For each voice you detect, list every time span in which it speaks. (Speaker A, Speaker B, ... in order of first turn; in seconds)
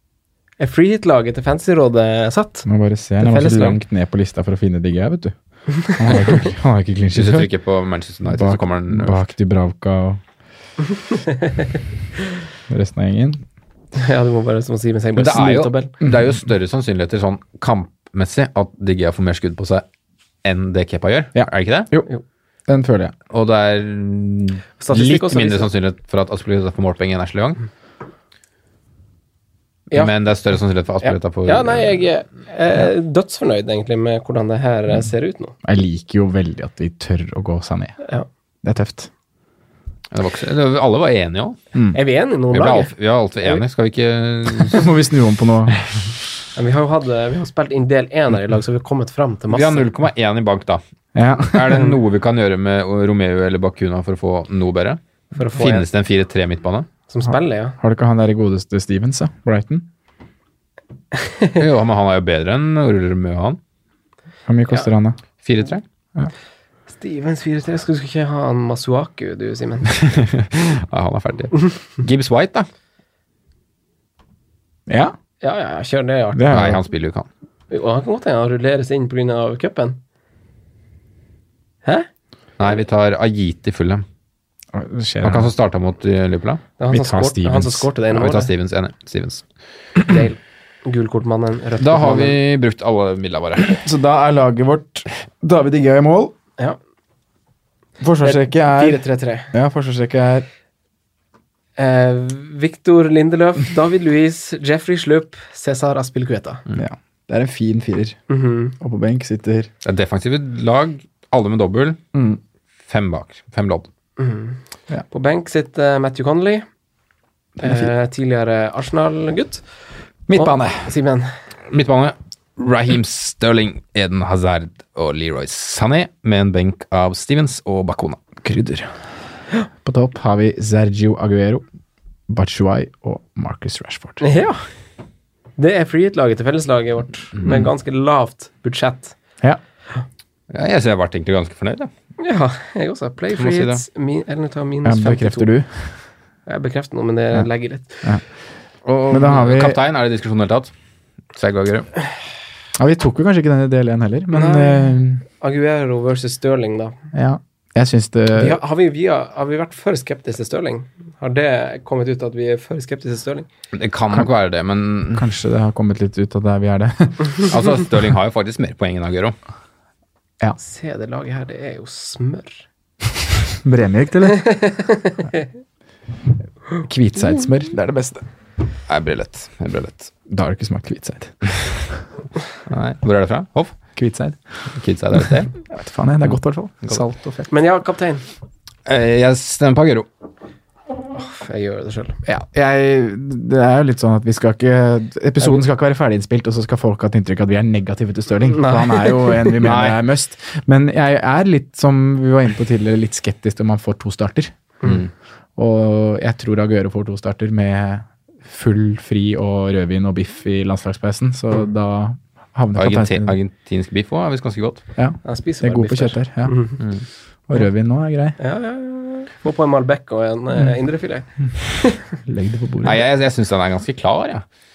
Speaker A: 0.6-2.6, 3.2-3.8, 5.8-6.3, 13.9-15.9, 24.8-25.7, 31.0-35.5, 38.0-38.3, 41.9-42.9, 46.5-49.9, 55.3-55.9, 57.1-57.8, 61.2-61.6, 67.0-69.9, 75.4-76.6, 77.7-80.0, 86.8-88.5, 90.0-92.3, 98.2-99.5, 101.8-106.6, 108.3-108.7, 114.2-114.6, 115.1-116.7, 117.6-119.6, 120.3-121.3, 134.2-134.6, 135.6-139.1, 142.2-145.5, 146.5-148.0, 154.3-156.9, 158.3-163.5, 170.6-172.6, 174.3-175.4, 187.5-188.2, 191.1-192.2, 198.5-199.6, 215.2-216.8, 218.4-222.0
Speaker B: 2.6-7.5, 8.2-10.2, 12.7-13.4, 16.0-16.3, 21.3-22.1, 22.7-23.1, 35.6-38.0, 38.6-39.1, 44.7-45.8, 51.1-51.9, 57.8-59.9, 64.5-65.2, 74.9-75.1, 76.3-76.8, 84.7-85.5, 86.9-87.9, 93.8-96.3, 98.0-100.5, 106.8-108.2, 108.8-109.7, 112.1-112.4, 120.3-120.9, 128.4-128.9, 129.8-131.6, 132.3-134.2, 144.8-145.9, 149.1-149.8, 152.8-155.2, 157.1-158.6, 165.1-167.4, 173.6-174.5, 176.8-178.2, 180.3-181.5, 183.9-184.6, 185.6-187.5, 192.2-204.5, 205.6-213.3, 214.9-216.7, 217.5-218.4, 222.2-223.0
Speaker C: 7.1-9.3, 15.2-19.8, 20.4-21.9, 23.3-27.6, 29.9-32.0, 40.1-41.6, 42.5-44.9, 49.5-50.8, 51.5-55.0, 55.6-56.9, 61.5-63.6, 65.4-65.8, 69.9-72.7, 76.5-77.3, 82.6-84.0, 85.2-86.6, 88.1-89.4, 91.8-93.8, 109.8-112.2, 112.9-113.9, 121.7-128.2, 137.4-137.6, 140.5-141.9, 143.3-143.8, 148.8-150.7, 151.3-151.9, 163.7-165.3, 167.4-169.3, 178.9-180.1, 182.7-183.8, 184.7-185.5, 188.8-190.1, 199.6-200.0, 204.8-205.1, 212.8-214.8, 222.8-224.4